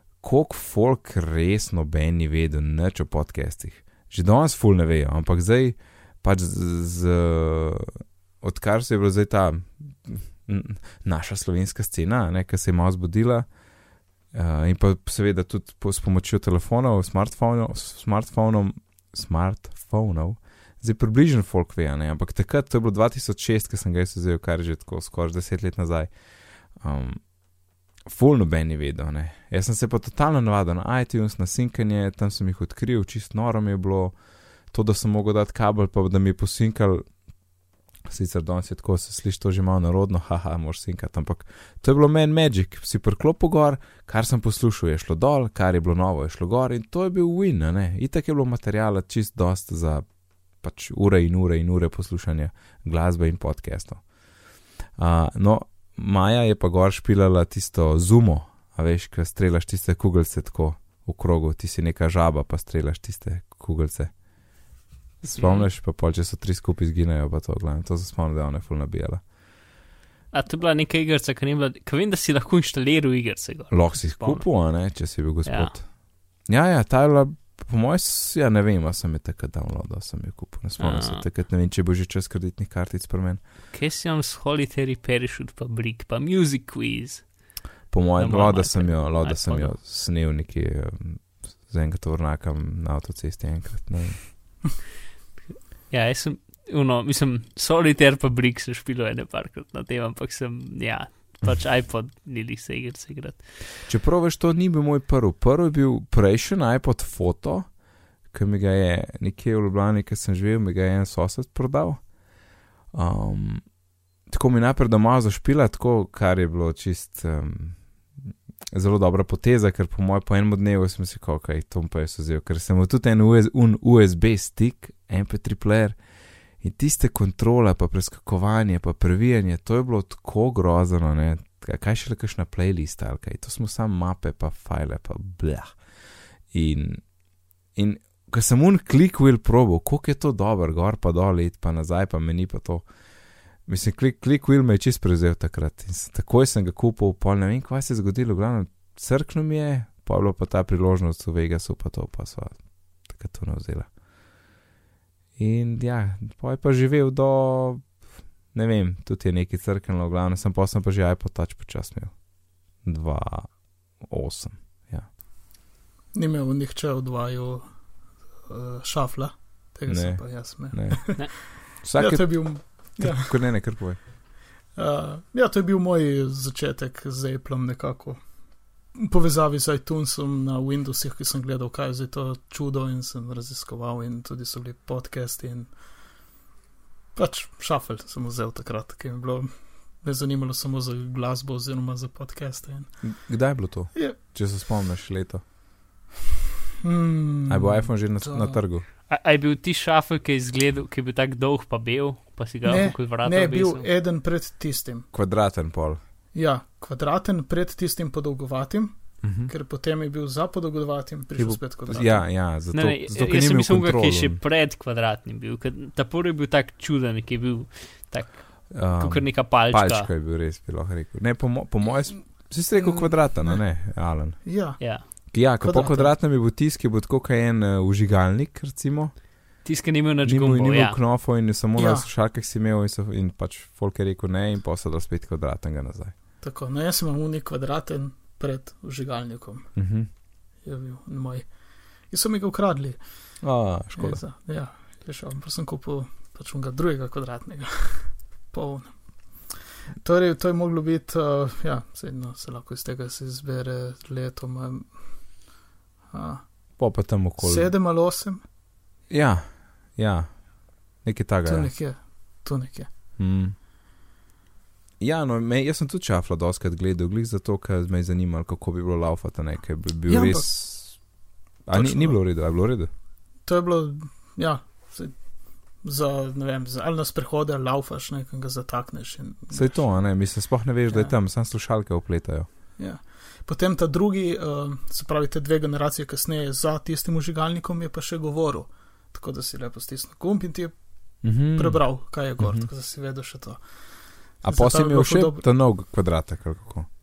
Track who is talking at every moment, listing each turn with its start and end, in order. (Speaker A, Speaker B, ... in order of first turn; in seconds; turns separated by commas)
Speaker A: 0.2-13.5, Speaker A: 14.3-27.4, Speaker A: 28.0-37.1, Speaker A: 38.0-54.1, Speaker A: 54.9-64.1, Speaker B: 65.2-65.7, Speaker A: 65.2-69.2, Speaker B: 70.3-74.9, Speaker A: 73.7-83.4, Speaker B: 75.4-75.7, Speaker B: 80.8-81.2, Speaker B: 83.7-89.7, Speaker A: 87.9-94.6, Speaker B: 95.9-103.6, Speaker A: 103.8-112.3, Speaker A: 112.9-126.0, Speaker A: 126.6-135.8, Speaker A: 136.5-137.1, Speaker A: 137.7-142.9, Speaker A: 143.6-153.9, Speaker A: 155.4-165.1, Speaker C: 166.1-167.7, Speaker C: 168.4-173.4, Speaker A: 169.9-174.0, Speaker C: 174.7-178.3, Speaker C: 178.9-185.7, Speaker C: 187.1-189.5, Speaker C: 190.0-192.9, Speaker A: 193.0-195.4, Speaker C: 196.8-198.6, Speaker A: 197.5-198.8, Speaker B: 199.1-203.8, Speaker C: 202.6-205.1, Speaker A: 205.1-206.0, Speaker C: 206.3-212.3, Speaker A: 209.2-209.5, Speaker A: 211.3-214.4, Speaker B: 212.7-220.1, Speaker A: 218.7-229.2, Speaker C: 222.8-223.7, Speaker C: 224.4-226.1, Speaker B: 224.8-225.1, Speaker B: 229.6-231.0, Speaker A: 230.2-236.1, Speaker C: 231.8-232.1, Speaker C: 236.4-239.7, Speaker A: 239.8-240.1, Speaker C: 240.6-241.5, Speaker C: 242.1-243.3, Speaker A: 243.4-244.2, Speaker C: 243.9-255.5, Speaker C: 256.1-258.4, Speaker A: 256.8-257.7, Speaker A: 259.1-261.7, Speaker C: 261.4-262.9, Speaker A: 263.2-263.6, Speaker A: 265.0-271.0, Speaker C: 270.1-271.0, Speaker A: 271.6-272.9, Speaker C: 271.7-272.2, Speaker C: 273.4-279.9, Speaker A: 279.5-282.5, Speaker C: 280.9-281.1, Speaker C: 282.8-295.4, Speaker A: 291.2-292.7, Speaker A: 294.4-296.9